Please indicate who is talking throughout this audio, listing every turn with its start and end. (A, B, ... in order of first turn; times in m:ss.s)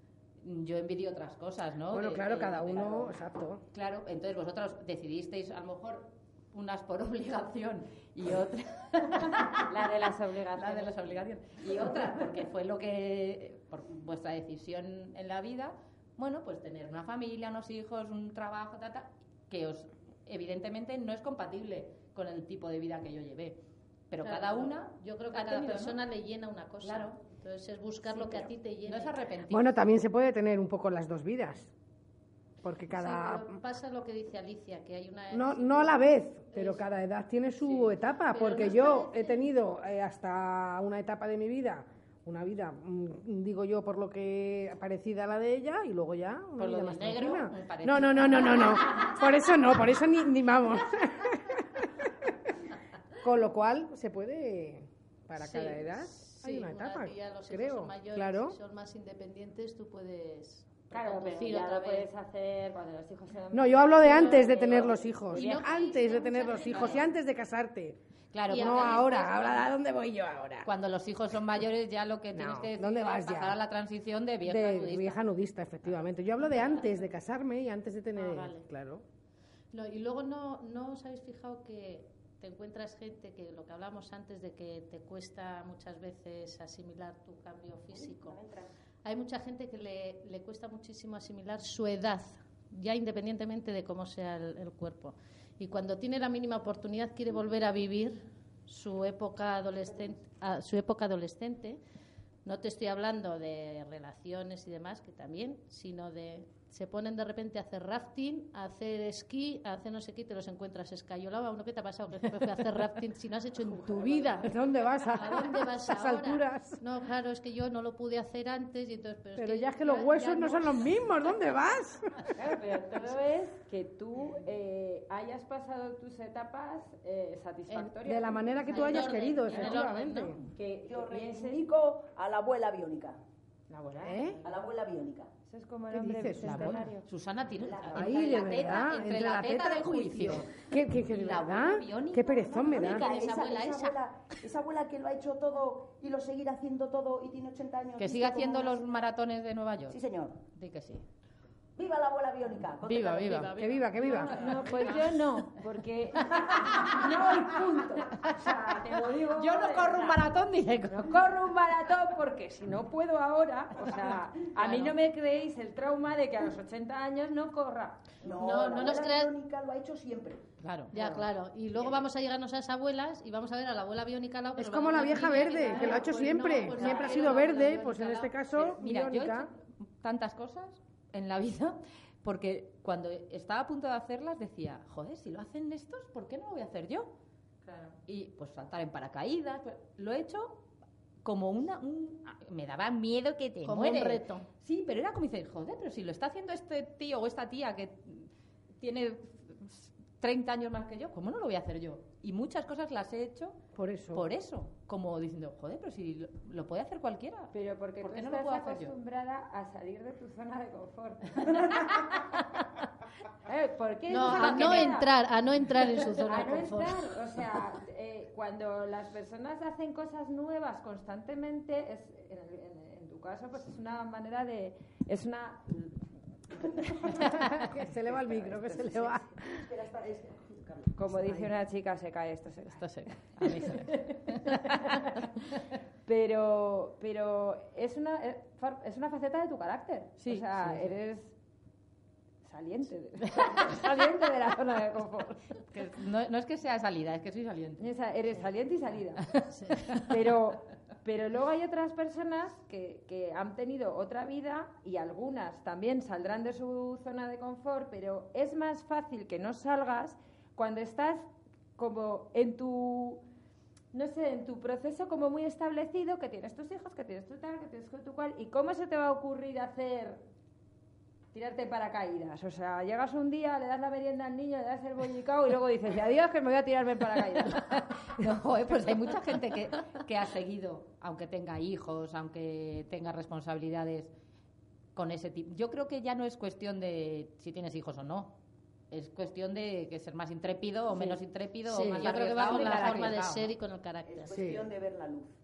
0:00.4-0:03.2 A
0:01.9-0:03.6 B
0:03.7-0:26.0 A
0:09.7-0:11.1 C
0:24.2-0:29.2 D
0:26.8-0:27.1 A
0:28.2-0:29.7 A
0:29.5-0:31.7 B
0:32.6-0:33.6 B
0:32.9-0:36.8 D
0:35.3-0:52.5 B
0:37.6-0:39.5 D
0:46.6-0:49.1 A
0:53.2-0:58.6 B
0:55.4-1:02.0 D
1:00.9-1:05.7 C
1:03.5-1:08.0 B
1:04.1-1:04.6 D
1:05.3-1:07.0 D
1:06.7-1:07.0 A
1:08.3-1:09.3 A
1:08.5-1:10.7 B
1:08.5-1:09.6 D
1:10.6-1:15.2 A
1:12.3-1:13.6 B
1:14.4-1:19.0 B
1:18.2-1:18.6 D
1:19.7-1:28.4 D
1:27.9-1:28.7 E
1:29.0-1:41.8 D
1:42.4-2:01.0 D
1:53.8-1:56.8 B
1:59.4-2:02.4 B
2:02.4-2:09.8 C
2:07.7-2:07.9 D
2:08.0-2:10.4 B
2:08.6-2:10.4 D
2:10.5-2:11.6 C
2:10.9-2:13.2 E
2:13.7-2:14.4 C
2:14.0-2:14.4 B
2:14.4-2:15.3 E
2:15.5-2:17.1 C
2:15.9-2:16.9 B
2:16.4-2:23.9 A
2:17.6-2:18.2 E
2:17.9-2:23.0 B
2:22.6-2:28.9 E
2:23.2-2:23.8 D
2:28.0-2:31.0 A
2:29.9-2:30.3 E
2:31.8-2:33.5 E
2:32.8-2:33.5 A
2:33.2-2:34.6 D
2:33.6-2:34.4 B
2:34.0-2:40.3 C
2:34.4-2:35.2 A
2:38.2-2:38.6 A
2:39.3-2:41.2 A
2:40.9-2:48.1 C
2:44.6-2:44.9 A
2:48.2-2:50.4 E
2:48.3-2:49.3 D
2:50.6-2:51.2 A
2:50.9-2:58.1 D
2:54.6-2:59.5 B
2:55.6-3:07.1 A
3:07.7-3:10.6 A
3:11.2-3:23.6 A
3:13.6-3:14.5 D
3:23.7-3:24.2 B
3:24.1-3:28.9 A
3:27.5-3:32.2 C
3:33.4-3:35.1 C
3:34.1-3:37.1 D
3:34.4-3:34.9 A
3:36.1-3:46.0 C
3:46.9-3:47.3 E
3:47.2-3:49.7 B
3:48.1-3:51.0 E
3:51.0-3:52.8 C
3:52.8-3:55.2 A
3:53.4-3:54.6 C
3:56.0-4:01.3 C
4:00.2-4:00.8 A
4:02.4-4:05.5 C
4:05.6-4:07.9 A
4:07.8-4:23.2 C
4:09.3-4:10.2 A
4:23.9-4:30.2 C
4:31.3-4:37.7 C
4:37.5-4:44.1 A
4:44.9-4:48.4 A
4:48.9-4:53.5 A
4:50.9-4:51.2 C
4:51.7-4:54.4 D
4:51.8-4:53.0 C
4:52.6-4:53.1 E
4:54.0-4:55.3 E
4:54.3-4:54.7 B